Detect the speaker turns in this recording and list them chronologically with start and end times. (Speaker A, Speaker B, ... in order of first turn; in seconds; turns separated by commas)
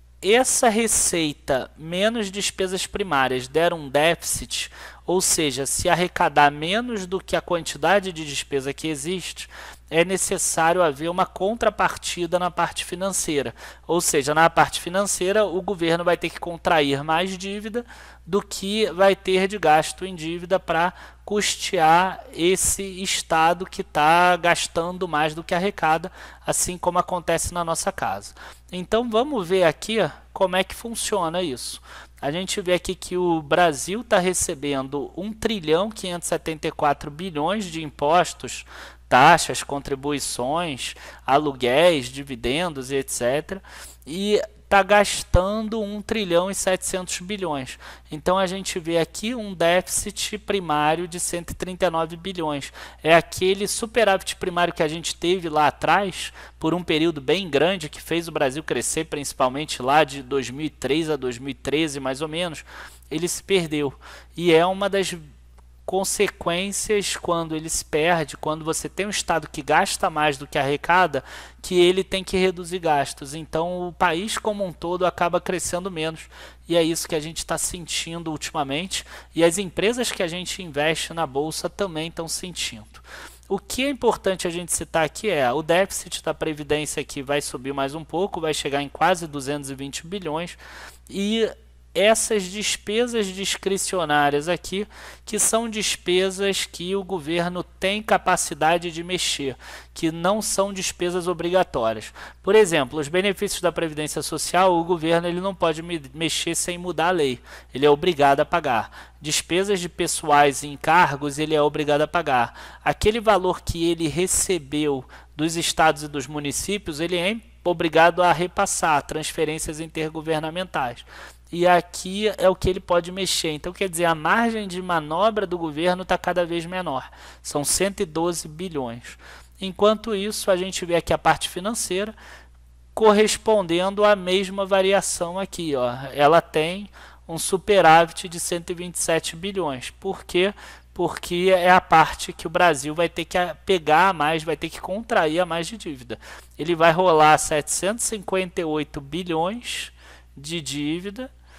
Speaker A: 0.2-65.2, Speaker A: 65.8-132.1, Speaker A: 132.9-151.3